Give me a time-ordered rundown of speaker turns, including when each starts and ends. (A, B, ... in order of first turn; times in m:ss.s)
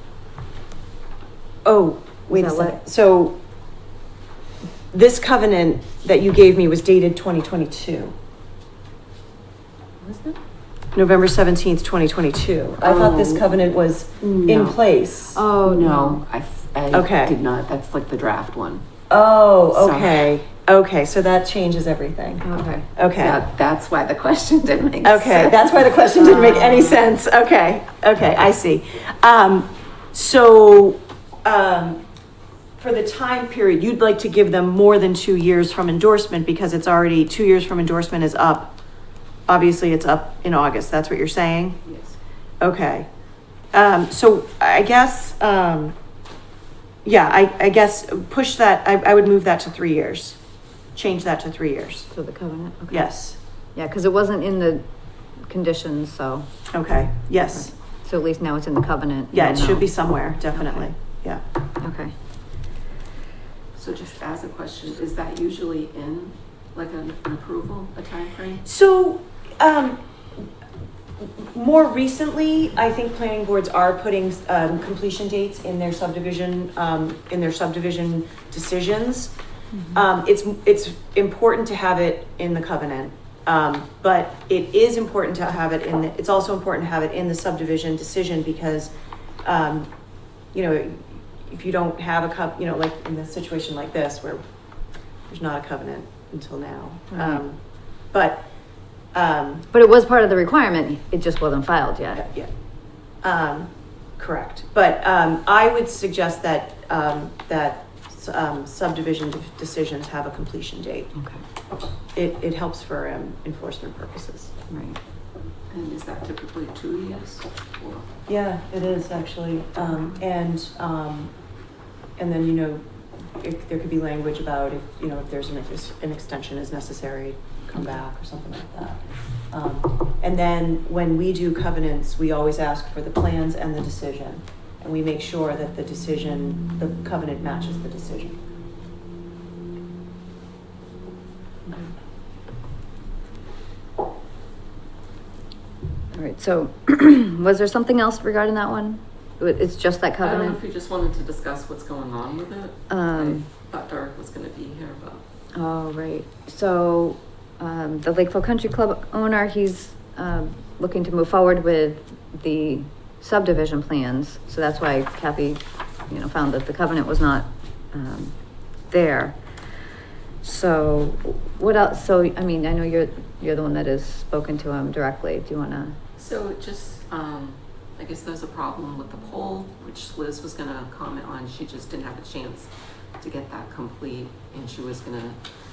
0:01.6-0:03.4 A
0:02.3-0:02.8 B
0:04.9-0:08.1 A
0:10.1-0:10.4 C
0:10.9-0:15.4 A
0:12.8-0:13.5 C
0:14.2-0:14.8 C
0:15.3-0:16.2 B
0:15.6-0:18.8 C
0:16.9-0:17.4 A
0:19.1-0:23.4 A
0:19.7-0:20.3 C
0:22.4-0:22.9 B
0:23.2-0:25.8 C
0:25.0-0:32.0 A
0:26.2-0:27.1 B
0:32.8-0:38.7 A
0:39.5-0:41.8 A
0:41.8-0:42.2 C
0:42.6-0:43.1 A
0:43.7-0:46.0 A
0:47.0-0:50.4 A
0:50.9-0:52.1 A
0:52.1-0:53.1 B
0:52.9-0:53.4 A
0:53.7-0:56.5 B
0:56.7-0:57.7 A
0:57.5-1:00.9 B
0:59.3-1:01.4 A
1:01.8-1:02.1 B
1:03.8-1:08.6 C
1:08.6-1:10.4 A
1:11.2-1:19.3 A
1:19.7-1:20.0 B
1:19.9-1:28.9 A
1:29.4-1:29.9 A
1:30.5-1:34.4 A
1:35.3-1:37.6 A
1:37.1-1:37.4 B
1:38.1-1:38.4 A
1:39.1-1:39.7 A
1:39.7-1:42.2 B
1:42.1-1:42.5 A
1:43.2-1:51.1 A
1:51.1-1:51.4 B
1:52.1-1:54.5 A
1:54.7-1:55.0 B
1:55.7-1:58.1 C
1:58.3-2:01.3 A
2:02.2-2:02.8 A
2:03.4-2:18.4 A
2:26.1-2:30.6 B
2:30.2-2:35.2 C
2:32.9-2:33.5 B
2:35.5-2:48.3 B
2:48.9-2:49.4 B
2:50.4-2:56.0 B
2:56.2-3:05.4 C